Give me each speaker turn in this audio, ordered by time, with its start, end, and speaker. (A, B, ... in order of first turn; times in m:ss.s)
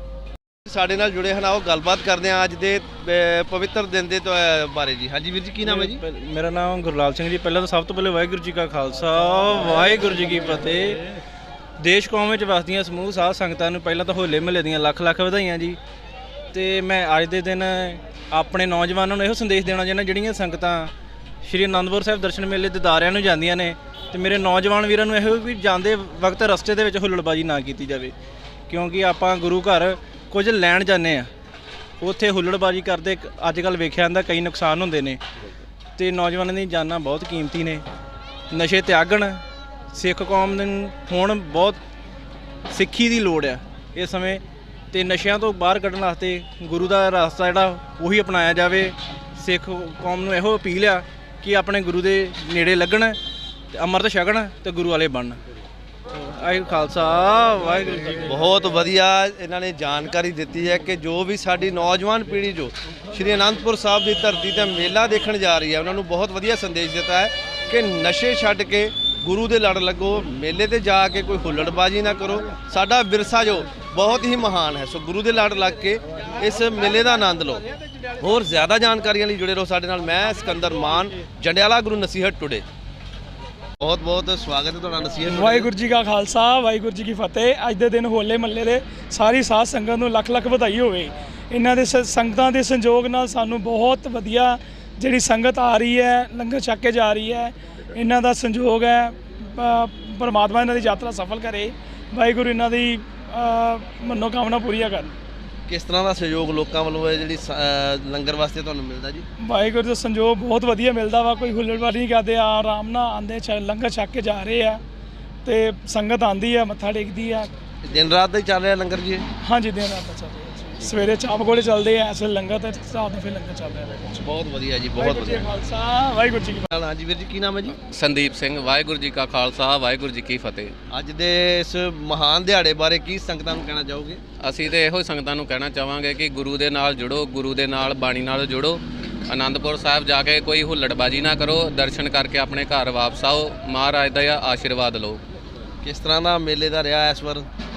0:00.6-0:06.0 A
0:05.6-0:11.0 B
0:11.8-0:15.8 B
0:16.5-0:20.9 B
0:21.4-0:28.1 B
0:28.7-0:31.3 B
0:32.0-0:35.2 B
0:36.0-0:37.8 B
0:38.5-0:41.8 B
0:42.7-0:53.2 B
0:53.7-0:55.4 B
0:56.1-0:58.2 B
0:58.2-1:17.6 A
1:18.2-1:22.6 A
1:23.8-1:25.7 A
1:25.5-1:25.8 B
1:25.7-1:45.1 C
1:45.7-1:49.2 A
1:49.4-1:54.8 C
1:55.4-1:57.5 C
1:57.8-1:59.3 A
1:59.4-2:04.2 C
2:00.8-2:01.0 A
2:04.2-2:05.5 A
2:05.1-2:06.7 C
2:06.7-2:07.8 A
2:07.8-2:10.7 D
2:10.9-2:14.2 A
2:14.4-2:25.2 D
2:25.8-2:27.4 A